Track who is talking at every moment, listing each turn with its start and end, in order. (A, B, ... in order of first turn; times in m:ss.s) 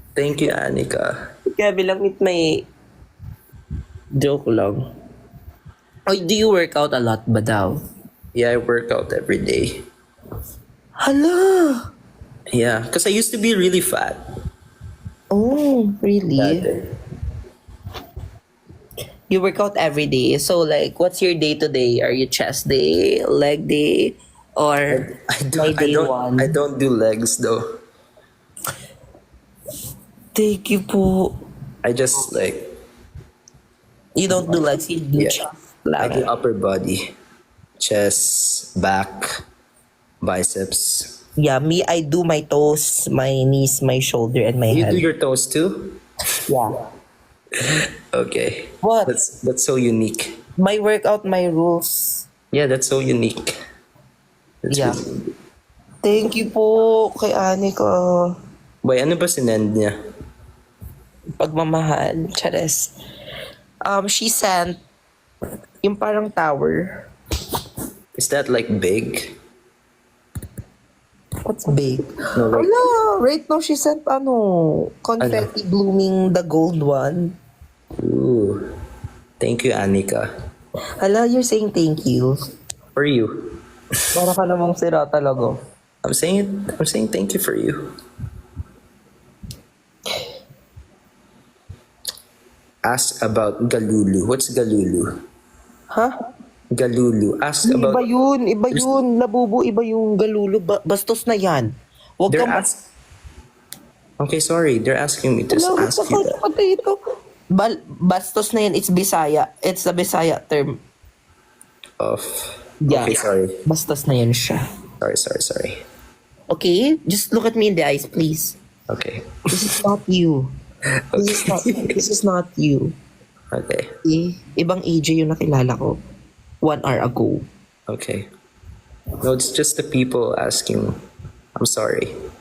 0:00.2-0:01.2 A
0:01.5-0:02.7 B
0:04.1-0:04.9 B
0:06.1-0:07.8 B
0:08.3-0:09.8 A
0:11.0-0:11.9 B
0:12.5-0:14.2 A
0:15.3-0:16.7 B
0:16.4-0:16.8 A
0:19.3-0:26.6 B
0:24.9-0:27.6 A
0:30.3-0:31.4 B
0:31.8-0:32.7 A
0:34.2-0:36.3 B
0:35.2-0:35.4 A
0:36.0-0:37.1 A
0:37.8-0:39.4 A
0:40.2-0:41.2 A
0:41.4-0:45.0 B
0:44.7-0:46.0 A
0:46.5-0:46.7 B
0:47.6-0:50.4 A
0:48.8-0:49.1 B
0:50.6-0:52.3 B
0:52.5-0:53.6 A
0:54.6-0:55.2 A
0:54.7-0:55.0 B
0:56.0-0:58.4 B
0:58.8-1:00.0 A
1:01.4-1:02.9 B
1:03.8-1:04.8 B
1:05.8-1:07.0 B
1:08.2-1:09.4 A
1:11.4-1:17.4 B
1:12.4-1:12.7 A
1:15.2-1:15.5 A
1:18.0-1:18.6 A
1:19.4-1:20.3 A
1:21.0-1:22.4 B
1:23.0-1:23.3 A
1:24.1-1:25.6 B
1:26.0-1:27.9 A
1:32.8-1:35.2 A
1:36.7-1:38.0 A
1:37.6-1:42.7 B
1:42.3-1:42.8 A
1:44.2-1:46.4 A
1:45.5-1:47.0 B
1:47.5-1:50.8 B
1:52.0-1:53.6 A
1:52.8-1:54.6 B
1:55.0-1:55.8 A
1:56.5-1:58.6 B
1:58.9-1:59.4 A
1:59.5-2:00.5 B
2:01.1-2:02.0 A
2:01.2-2:03.0 B
2:03.5-2:03.9 A
2:04.0-2:06.0 B
2:06.6-2:07.5 B
2:07.9-2:08.3 A
2:09.2-2:11.0 A
2:11.6-2:12.1 A